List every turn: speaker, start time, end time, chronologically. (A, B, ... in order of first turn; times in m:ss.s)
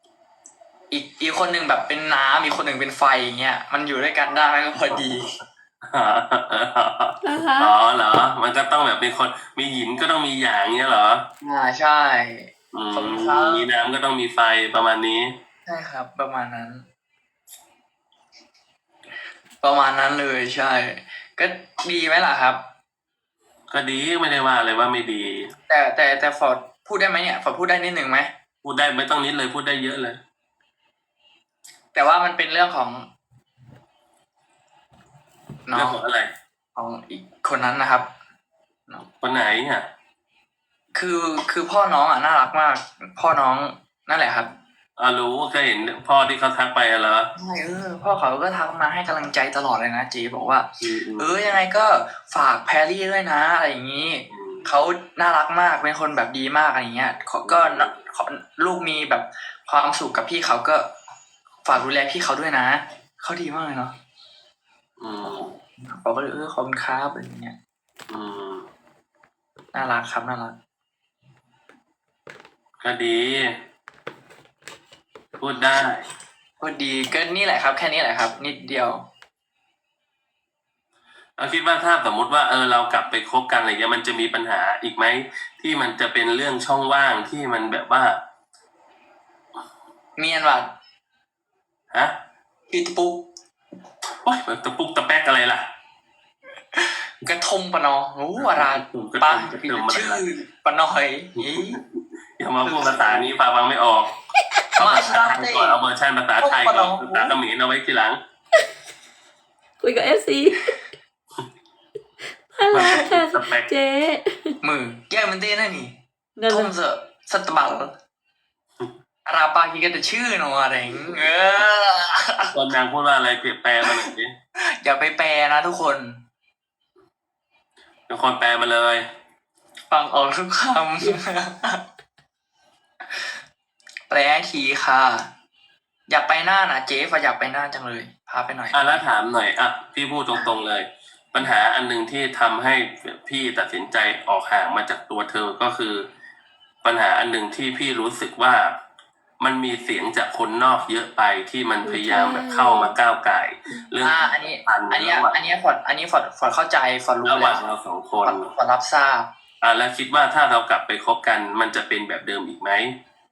0:00.9-0:05.4 A
0:05.9-0:11.3 B
0:07.2-0:07.8 C
0:11.4-0:13.7 A
0:12.7-0:15.3 B
0:15.7-0:16.8 A
0:19.6-0:22.6 A
0:23.7-0:25.5 B
0:25.7-0:28.3 A
0:28.6-0:30.2 B
0:31.9-0:33.1 A
0:35.7-0:36.0 A
0:35.7-0:36.3 B
0:36.8-0:38.1 A
0:39.2-0:39.9 B
0:40.9-0:44.5 A
0:45.0-0:47.3 B
0:47.4-1:00.9 A
0:50.8-0:51.3 B
0:54.3-0:54.7 B
0:57.4-0:57.9 B
1:01.6-1:04.0 A
1:05.0-1:05.5 B
1:05.2-1:07.6 A
1:08.1-1:08.7 B
1:09.7-1:10.6 A
1:12.8-1:13.5 B
1:15.4-1:16.0 B
1:16.6-1:19.0 A
1:21.4-1:28.2 B
1:30.2-1:30.7 A
1:32.7-1:33.3 A
1:34.2-1:35.7 B
1:36.7-1:41.8 A
1:38.4-1:40.2 B
1:41.4-1:44.2 B
1:42.6-1:43.3 A
1:44.8-1:45.8 A
1:44.8-1:48.2 B
1:46.4-1:47.4 A
1:49.8-1:50.8 C
1:52.5-1:54.6 C
1:52.7-1:53.7 B
1:54.6-1:57.9 A
1:56.4-1:56.7 C
1:59.3-2:02.5 A
2:02.5-2:04.4 B
2:03.8-2:04.1 A
2:04.8-2:06.2 A
2:08.1-2:09.0 B
2:09.9-2:11.8 A
2:14.1-2:15.3 A
2:16.1-2:19.0 A
2:18.7-2:26.1 B
2:26.8-2:28.8 B
2:29.4-2:35.4 B
2:31.8-2:33.0 C
2:33.7-2:33.9 C
2:34.0-2:37.6 A
2:37.2-2:38.5 B
2:38.2-2:39.3 A
2:39.6-2:43.0 B